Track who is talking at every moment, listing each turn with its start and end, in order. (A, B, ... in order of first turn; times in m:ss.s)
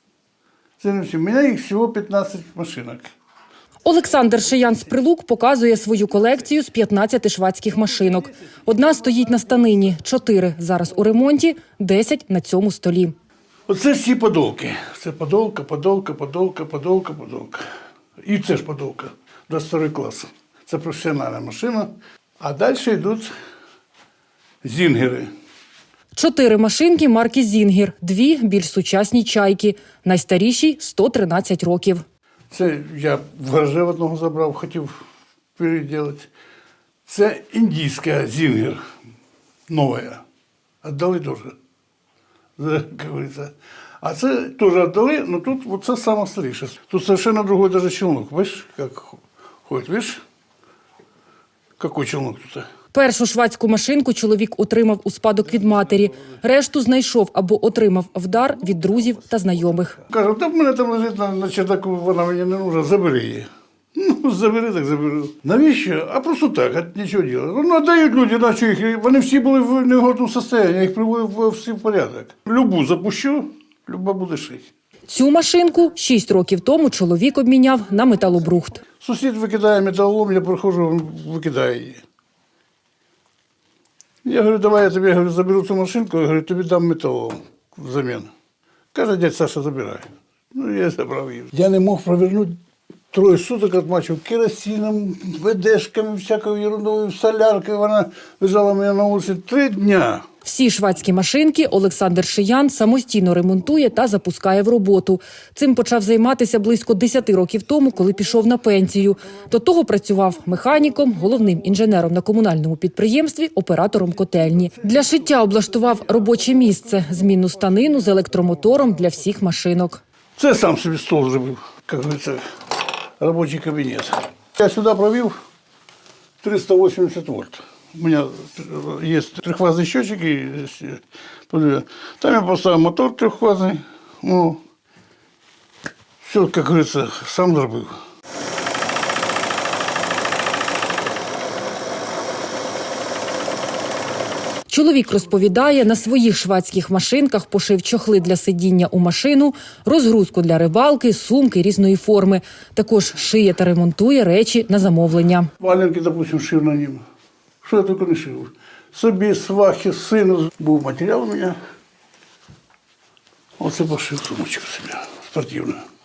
0:00.8-0:03.1 A
0:03.8-0:13.1 B
0:13.7-0:17.6 A
0:18.2-0:23.3 A
0:24.6-0:25.3 A
0:26.1-0:32.0 B
0:32.5-0:35.0 A
0:35.6-0:36.3 A
0:37.1-0:38.8 A
0:39.7-0:40.2 A
0:40.8-0:41.6 A
0:42.6-0:50.2 A
0:51.8-0:52.7 A
0:52.9-1:00.0 B
1:00.1-1:14.7 A
1:15.1-1:18.8 B
1:19.0-1:22.0 A
1:24.2-1:28.3 A
1:28.9-1:32.6 A
1:33.1-1:40.2 A
1:40.4-2:00.0 B
2:00.4-2:02.4 A
2:03.2-2:05.3 A
2:06.4-2:14.6 A
2:16.2-2:18.0 A
2:24.7-2:35.5 B
2:35.6-2:37.0 A
2:37.6-2:41.6 A
2:43.6-2:45.8 A